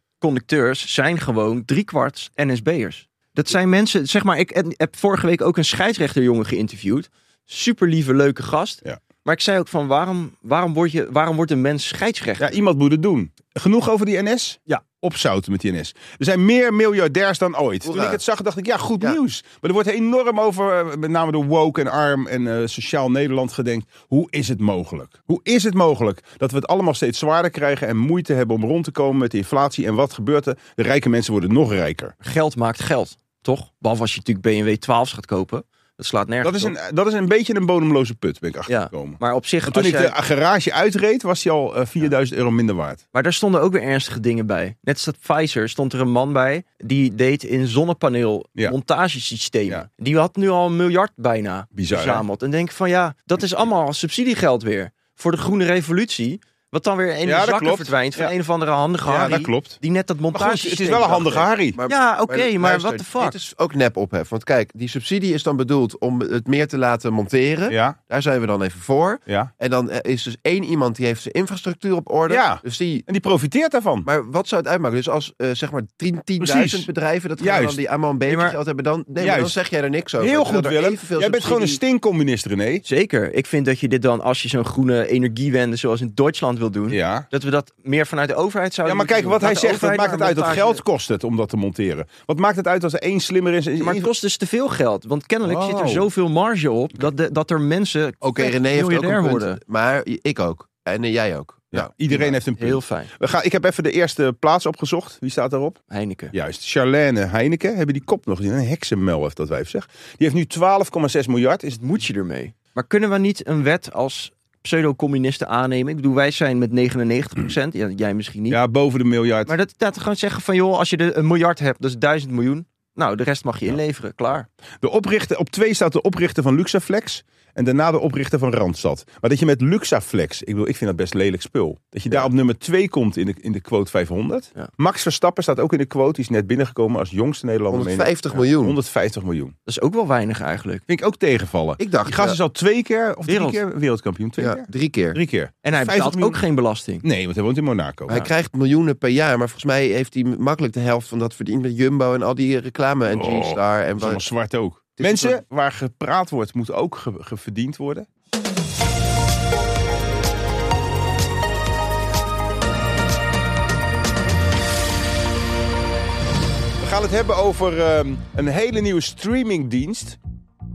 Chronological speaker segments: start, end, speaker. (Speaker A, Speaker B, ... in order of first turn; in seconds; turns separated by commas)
Speaker A: 0.2-12.5, Speaker B: 12.4-32.1, Speaker C: 17.9-18.2, Speaker A: 32.2-36.7, Speaker B: 36.4-43.0, Speaker A: 38.7-40.1, Speaker A: 43.1-63.4, Speaker B: 51.7-52.2, Speaker B: 57.2-58.3, Speaker B: 59.1-59.8, Speaker B: 60.3-61.8, Speaker C: 61.7-73.1, Speaker B: 67.7-68.0, Speaker B: 72.3-74.1, Speaker C: 74.0-81.8, Speaker B: 76.4-77.8, Speaker A: 78.3-78.6, Speaker B: 79.2-79.5, Speaker B: 80.2-82.8, Speaker A: 82.8-90.8, Speaker B: 86.9-87.3, Speaker B: 88.8-94.1, Speaker A: 93.8-99.6, Speaker B: 95.5-96.1, Speaker C: 98.2-102.3, Speaker B: 101.7-105.8, Speaker A: 102.1-103.1, Speaker A: 105.9-106.3, Speaker B: 106.3-111.8, Speaker A: 111.8-118.6, Speaker B: 118.5-119.5, Speaker A: 119.5-124.5, Speaker B: 124.8-139.5, Speaker C: 137.7-138.8, Speaker A: 139.7-140.8, Speaker B: 140.9-146.4, Speaker C: 141.8-142.4, Speaker A: 143.3-143.6, Speaker C: 144.4-145.2, Speaker A: 145.6-147.1, Speaker B: 147.0-148.3, Speaker C: 148.1-154.2, Speaker B: 153.1-158.1, Speaker C: 155.0-155.4, Speaker B: 166.8-170.2